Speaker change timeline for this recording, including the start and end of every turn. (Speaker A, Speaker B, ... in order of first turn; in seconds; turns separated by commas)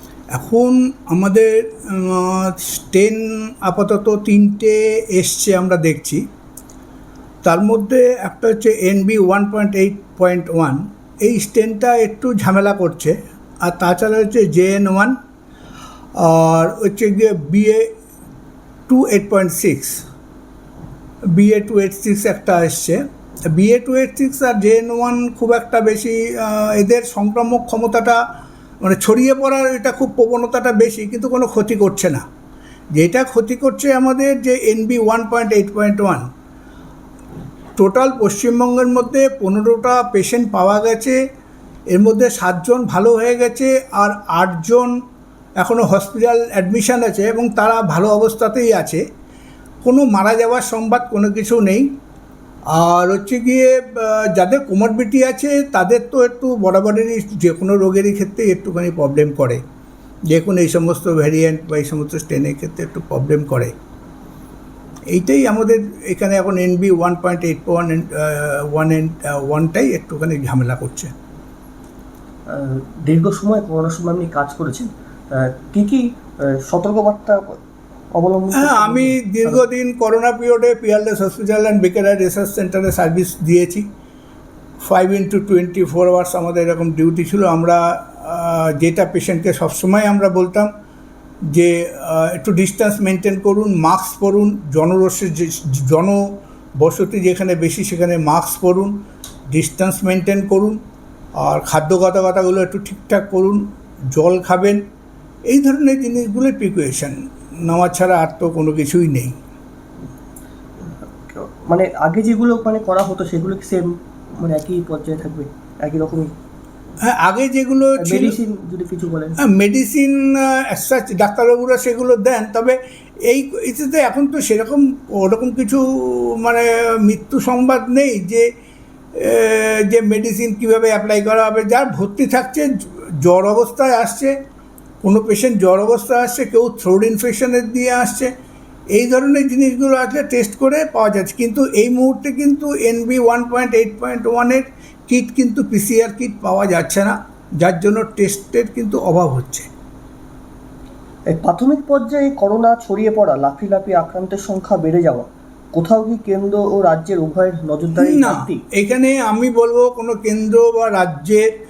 Speaker A: 0.3-6.2, Speaker A: 7.4-15.2, Speaker A: 16.2-17.9, Speaker A: 18.9-20.0, Speaker A: 21.3-23.0, Speaker A: 23.5-28.2, Speaker A: 28.8-32.2, Speaker A: 32.9-36.2, Speaker A: 37.8-41.2, Speaker A: 41.9-44.9, Speaker A: 45.6-49.0, Speaker A: 49.8-51.9, Speaker A: 52.7-59.6, Speaker A: 60.3-63.7, Speaker A: 65.1-71.1, Speaker B: 72.5-77.6, Speaker B: 78.2-79.6, Speaker A: 78.6-83.8, Speaker A: 84.8-90.7, Speaker A: 91.5-96.2, Speaker A: 96.8-98.9, Speaker A: 99.5-100.8, Speaker A: 101.4-103.6, Speaker A: 104.1-104.8, Speaker A: 105.5-109.3, Speaker B: 111.2-116.3, Speaker A: 117.0-118.4, Speaker B: 118.0-119.4, Speaker A: 119.4-128.5, Speaker A: 129.2-134.3, Speaker A: 135.0-138.3, Speaker A: 138.9-149.7, Speaker B: 151.3-158.6, Speaker A: 158.0-161.5